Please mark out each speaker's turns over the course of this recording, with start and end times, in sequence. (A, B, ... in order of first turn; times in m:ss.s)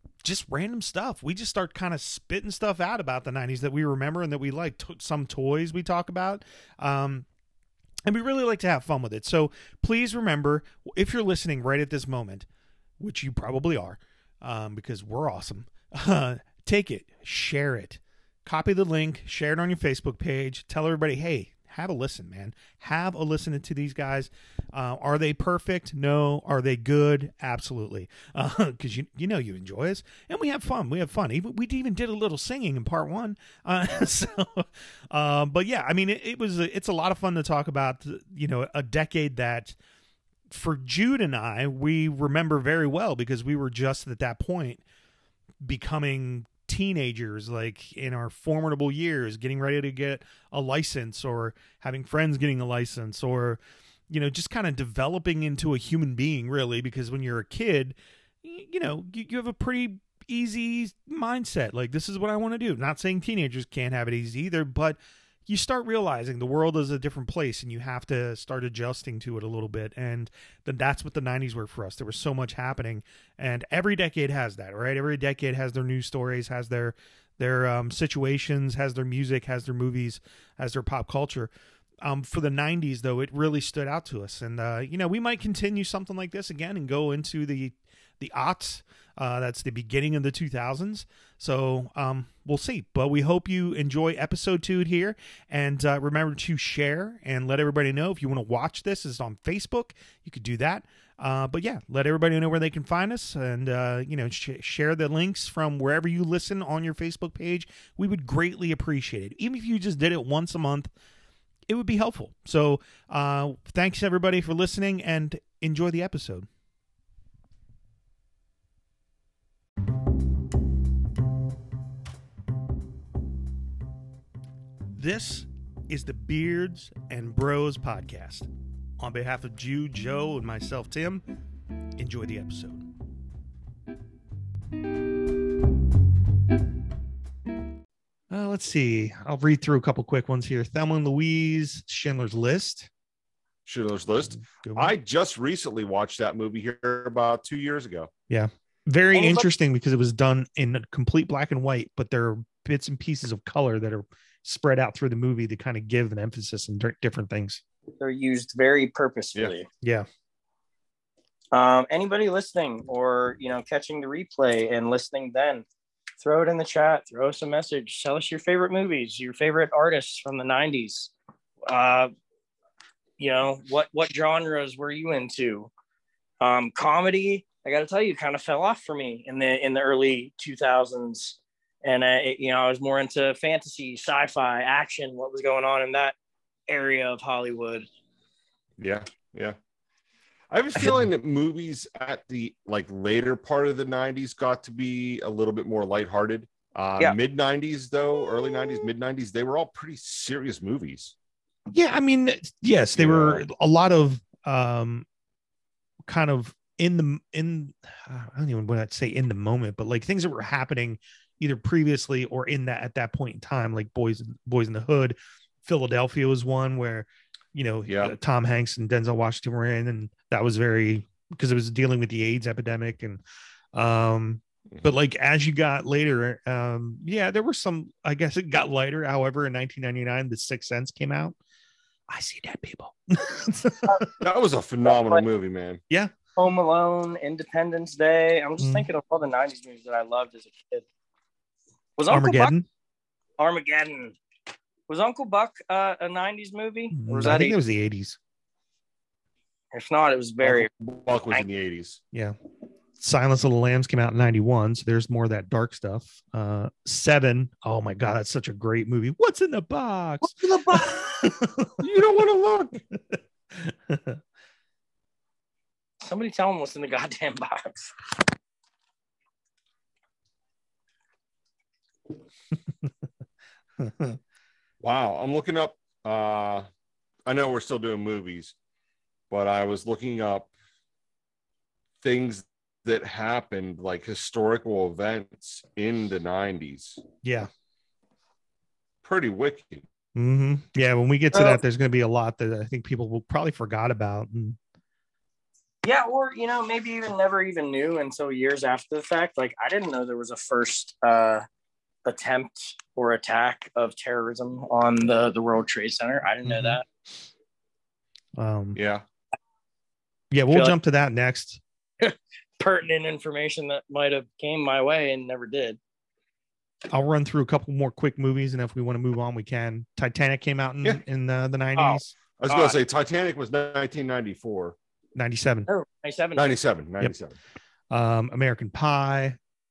0:00.2-0:07.3 A
0:08.1-0:12.5 A
0:13.0-0:39.8 A
0:40.5-0:44.8 A
0:45.6-1:21.5 A
1:22.0-1:50.9 A
1:51.7-1:56.5 A
2:05.0-2:08.5 A
2:09.0-2:11.2 A
2:12.0-2:12.9 A
2:18.3-2:22.9 A
2:23.7-2:28.1 B
2:24.3-2:25.0 A
2:28.3-2:37.6 A
2:29.1-2:29.5 C
2:38.0-2:39.7 C
2:39.8-2:40.1 A
2:41.5-2:45.6 C
2:46.2-2:51.1 C
2:51.7-2:52.1 C
2:53.2-2:55.7 C
2:56.4-3:06.2 C
3:06.7-3:07.9 C
3:08.8-3:09.6 B
3:10.5-3:21.1 B
3:21.7-3:25.1 A
3:23.0-3:23.4 B
3:26.1-3:43.2 A
3:37.9-3:38.1 B
3:43.7-3:51.4 A
3:52.1-3:54.1 A
3:54.2-3:55.8 B
3:54.9-3:55.2 C
3:56.4-4:00.8 C
3:58.6-3:58.9 A
4:02.0-4:02.5 C
4:02.1-4:02.7 A
4:03.4-4:04.2 C
4:04.9-4:07.6 C
4:06.9-4:08.2 A
4:09.7-4:10.7 C
4:10.4-4:12.0 B
4:13.0-4:21.8 A
4:20.2-4:21.3 C
4:21.8-4:22.8 B
4:22.9-4:24.2 A
4:26.0-4:27.9 C
4:33.8-4:34.2 A
4:34.8-4:36.7 B
4:37.3-4:38.5 B
4:39.3-4:40.5 B
4:42.0-4:47.0 B
4:47.2-4:47.5 A
4:49.0-4:49.9 B
4:50.2-4:54.6 A
4:55.8-5:01.4 C
5:02.0-5:06.9 C
5:06.4-5:06.8 A
5:08.4-5:08.8 A
5:08.8-5:09.0 B
5:10.3-5:11.6 A
5:12.0-5:15.8 C
5:16.9-5:22.1 A
5:21.8-5:22.8 C
5:22.4-5:24.8 B
5:25.2-5:25.7 A
5:25.7-5:26.5 C
5:26.4-5:27.4 B
5:27.9-5:29.4 A